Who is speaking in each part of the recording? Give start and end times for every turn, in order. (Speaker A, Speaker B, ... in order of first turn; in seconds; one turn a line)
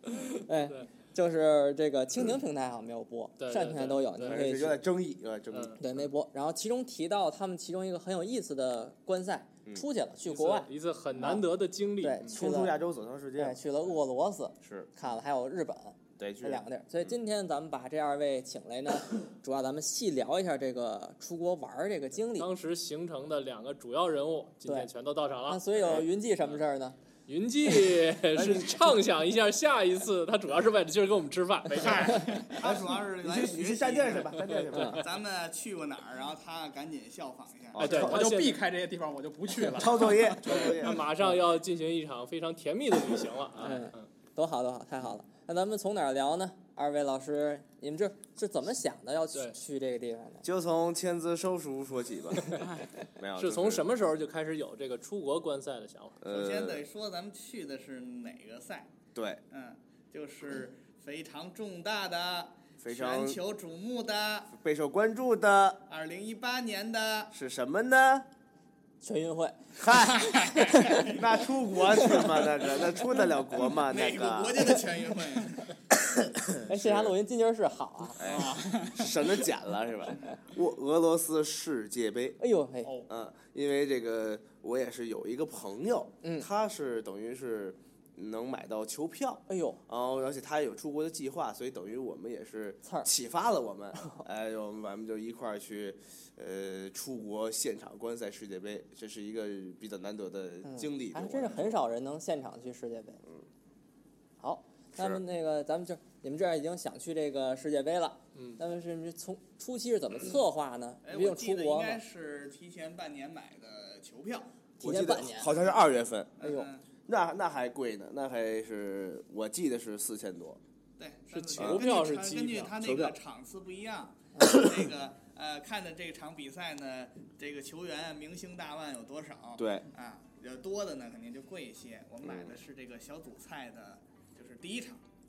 Speaker A: 0.4-4.8
Speaker B: 3.4-4.4
Speaker C: 4.2-5.8
Speaker B: 5.5-5.8
Speaker A: 5.8-11.4
Speaker B: 10.2-12.4
Speaker A: 12.0-12.8
Speaker C: 12.3-13.7
Speaker A: 13.4-22.5
Speaker C: 14.6-14.9
Speaker C: 16.2-17.1
Speaker B: 22.4-25.7
Speaker A: 25.5-27.0
Speaker B: 27.3-32.4
Speaker C: 28.3-28.9
Speaker D: 31.8-38.1
Speaker E: 31.9-32.3
Speaker C: 32.6-35.2
Speaker A: 34.7-35.0
Speaker C: 37.7-38.3
Speaker B: 37.8-38.6
Speaker E: 37.9-41.0
Speaker C: 39.7-41.0
Speaker B: 40.4-44.1
Speaker A: 43.6-50.4
Speaker C: 50.4-53.9
Speaker B: 53.4-56.2
Speaker C: 56.2-56.8
Speaker D: 56.3-58.9
Speaker C: 59.1-59.4
Speaker D: 59.5-64.5
Speaker C: 62.8-63.4
Speaker C: 64.5-65.8
Speaker D: 65.9-67.3
Speaker C: 67.3-68.3
Speaker A: 69.0-69.8
Speaker C: 69.8-74.8
Speaker D: 70.0-71.2
Speaker D: 73.6-75.7
Speaker C: 76.6-77.1
Speaker A: 76.7-78.3
Speaker C: 78.2-82.4
Speaker D: 78.2-79.0
Speaker A: 82.4-83.0
Speaker C: 83.1-101.8
Speaker A: 89.5-89.8
Speaker A: 100.7-103.2
Speaker A: 104.4-112.0
Speaker C: 105.0-105.2
Speaker B: 108.3-108.6
Speaker D: 111.0-114.5
Speaker C: 114.8-116.5
Speaker A: 114.8-115.5
Speaker D: 116.4-116.8
Speaker A: 116.4-116.7
Speaker C: 117.1-120.6
Speaker D: 121.0-135.0
Speaker B: 121.3-122.7
Speaker C: 121.6-121.8
Speaker C: 122.8-123.2
Speaker C: 129.6-129.8
Speaker C: 132.2-132.6